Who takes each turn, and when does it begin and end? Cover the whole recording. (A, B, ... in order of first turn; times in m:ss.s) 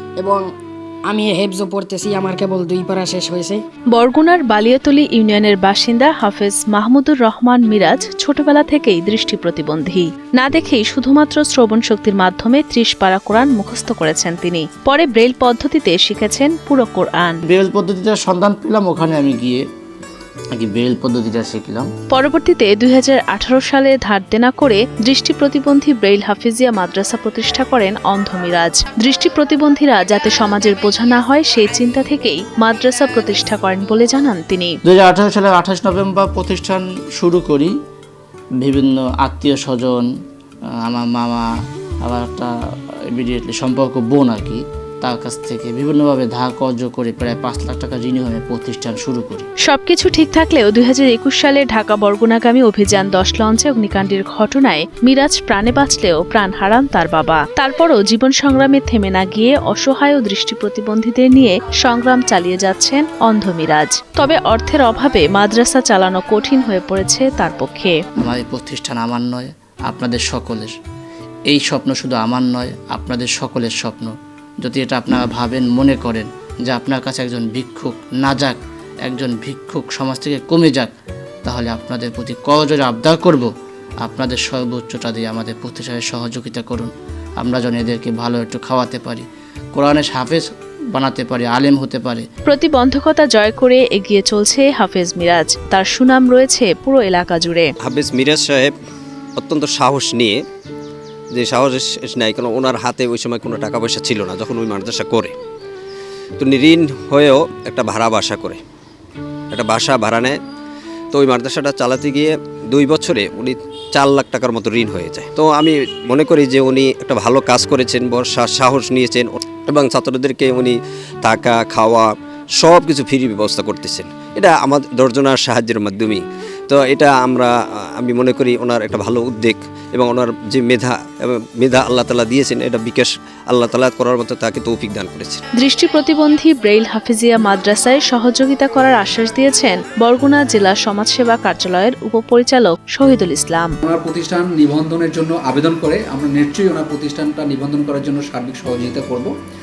0:00.2-0:00.5 A
0:01.1-0:03.6 A
0:03.9-0:17.4 B
0:17.5-0:19.6 C
0:20.6-0:21.9 C
0:22.1-0:34.8 B
0:34.9-0:37.7 C
0:38.6-0:40.1 C
0:40.8-0:41.5 C
0:42.0-0:42.5 C
0:43.1-0:49.5 C
0:49.7-1:08.0 B
1:08.2-1:10.7 C
1:11.5-1:20.9 C
1:21.4-1:23.5 C
1:24.0-1:32.2 C
1:32.5-1:37.7 B
1:37.8-1:38.7 D
1:39.4-1:40.4 D
1:41.4-1:45.3 D
1:46.4-1:48.6 D
1:49.5-1:50.4 D
1:51.1-2:15.4 D
2:15.6-2:23.7 B
2:23.8-2:29.3 E